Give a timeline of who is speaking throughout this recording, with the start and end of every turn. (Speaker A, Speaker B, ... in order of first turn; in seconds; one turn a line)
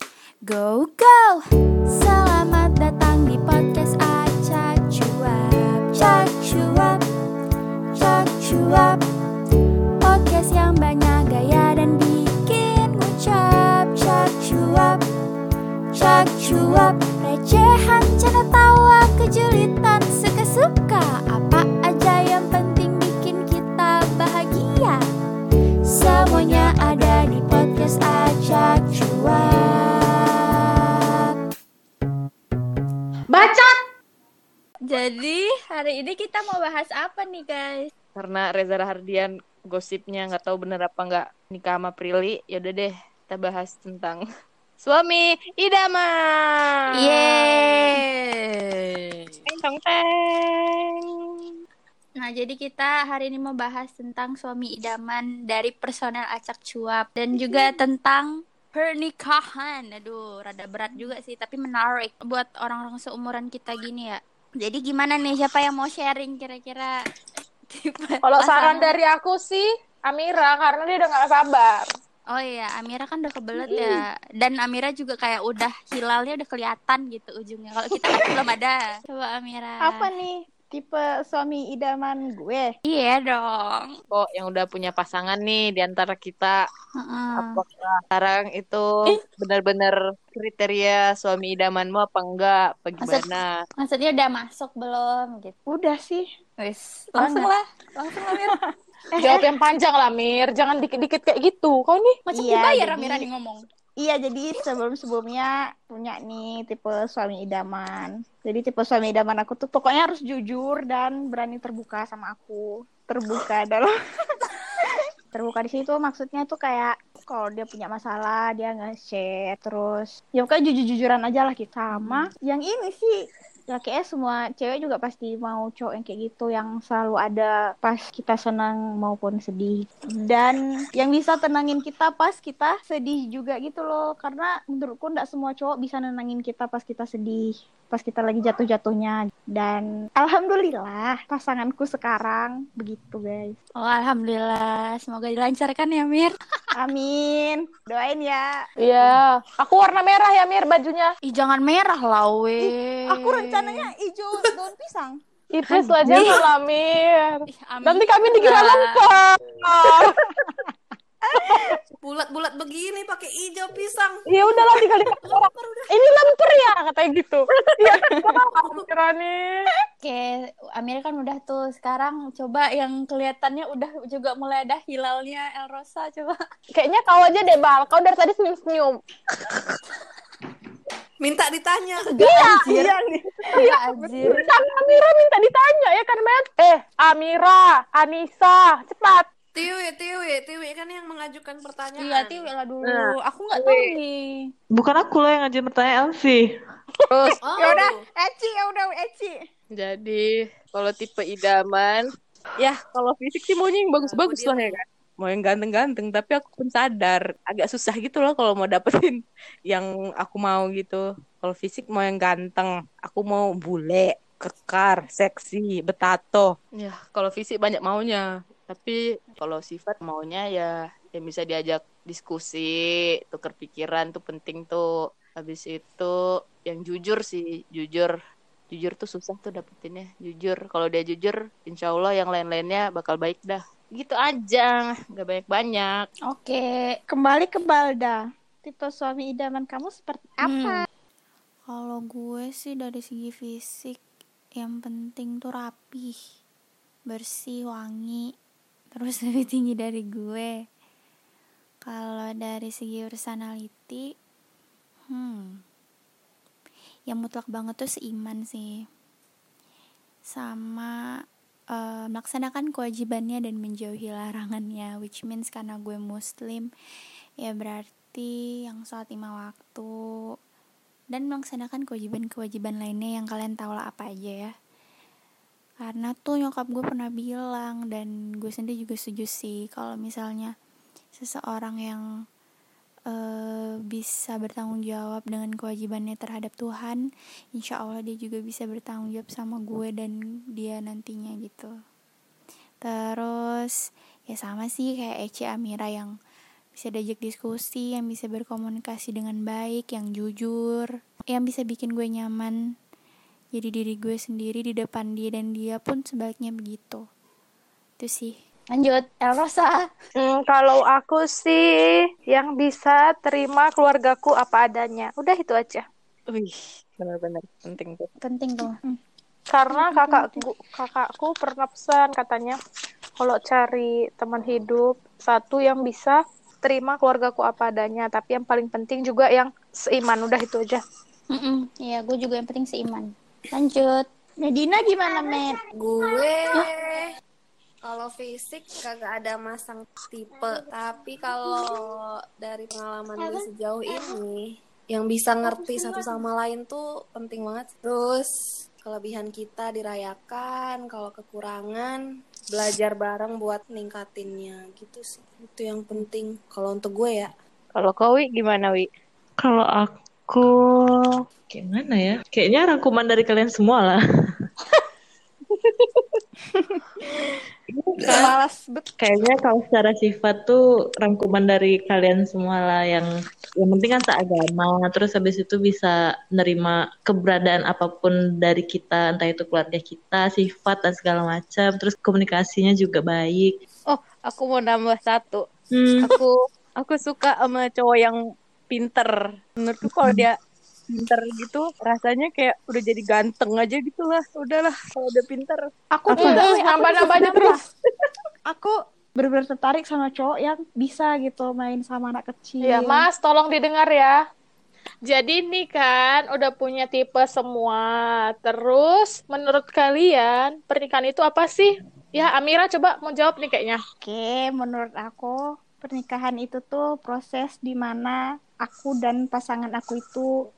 Speaker A: 0.5-7.0
Speaker A: 8.0-9.0
Speaker A: 10.0-15.0
Speaker A: 15.9-25.1
Speaker A: 25.9-30.5
Speaker B: 33.3-33.7
Speaker A: 34.9-37.9
Speaker C: 38.1-44.2
Speaker C: 44.8-51.0
Speaker A: 46.9-48.0
Speaker A: 52.2-66.9
Speaker A: 67.7-68.9
Speaker B: 68.2-71.8
Speaker A: 72.3-80.0
Speaker B: 73.6-73.9
Speaker D: 79.8-82.7
Speaker A: 82.8-84.0
Speaker C: 84.1-86.6
Speaker A: 87.0-87.6
Speaker C: 87.3-93.5
Speaker A: 93.0-95.5
Speaker D: 95.7-96.3
Speaker A: 96.6-98.5
Speaker D: 97.2-97.5
Speaker B: 99.2-102.2
Speaker D: 99.2-99.5
Speaker A: 102.3-103.6
Speaker D: 102.3-103.3
Speaker D: 104.0-113.9
Speaker D: 115.3-123.1
Speaker D: 123.7-143.6
Speaker A: 143.8-146.3
Speaker D: 146.8-148.5
Speaker B: 148.8-151.1
Speaker A: 151.2-153.9
Speaker D: 152.6-155.2
Speaker B: 155.5-160.1
Speaker A: 156.0-156.4
Speaker A: 157.5-159.1
Speaker D: 159.8-160.7
Speaker D: 161.3-161.8
Speaker E: 162.0-166.1
Speaker B: 164.3-169.7
Speaker A: 170.0-176.4
Speaker B: 176.7-179.0
Speaker E: 181.2-183.0
Speaker A: 182.0-182.9
Speaker D: 182.6-183.1
Speaker A: 183.5-184.4
Speaker D: 183.9-184.4
Speaker B: 184.2-189.3
Speaker E: 189.5-192.5
Speaker A: 192.0-194.4
Speaker C: 192.8-193.8
Speaker F: 194.7-196.5
Speaker C: 197.1-197.4
Speaker E: 197.4-198.0
Speaker D: 197.5-199.3
Speaker C: 199.7-202.0
Speaker C: 202.6-228.1
Speaker E: 204.0-204.8
Speaker C: 228.7-236.1
Speaker A: 236.3-237.0
Speaker D: 237.1-240.8
Speaker A: 240.4-240.8
Speaker A: 241.7-244.0
Speaker A: 244.6-246.1
Speaker A: 247.1-248.2
Speaker A: 248.9-250.5
Speaker A: 251.8-254.0
Speaker A: 255.1-255.5
Speaker A: 257.1-258.7
Speaker A: 260.3-260.9
Speaker A: 261.7-266.7
Speaker A: 267.4-269.9
Speaker A: 271.1-274.5
Speaker A: 275.8-280.5
Speaker A: 281.2-282.0
Speaker A: 283.1-287.0
Speaker A: 287.6-291.7
Speaker A: 292.9-293.3
Speaker A: 294.3-296.1
Speaker A: 296.8-302.5
Speaker A: 303.5-307.0
Speaker A: 308.0-309.9
Speaker B: 310.2-311.7
Speaker B: 312.3-315.8
Speaker C: 316.3-318.1
Speaker A: 318.2-318.8
Speaker B: 319.5-322.6
Speaker D: 319.8-320.4
Speaker B: 323.2-330.8
Speaker A: 331.3-334.1
Speaker D: 334.4-335.6
Speaker E: 335.8-337.1
Speaker E: 337.8-357.3
Speaker C: 357.7-358.9
Speaker F: 359.4-364.0
Speaker C: 365.6-366.1
Speaker F: 367.7-368.3
Speaker D: 368.0-368.9
Speaker F: 369.0-383.5
Speaker C: 383.9-385.4
Speaker F: 385.7-386.1
Speaker C: 386.0-388.2
Speaker C: 388.7-390.4
Speaker F: 389.9-390.2
Speaker C: 390.9-395.7
Speaker D: 395.9-397.6
Speaker B: 396.2-397.6
Speaker D: 398.5-403.0
Speaker B: 402.6-404.2
Speaker B: 405.1-413.8
Speaker D: 414.0-420.3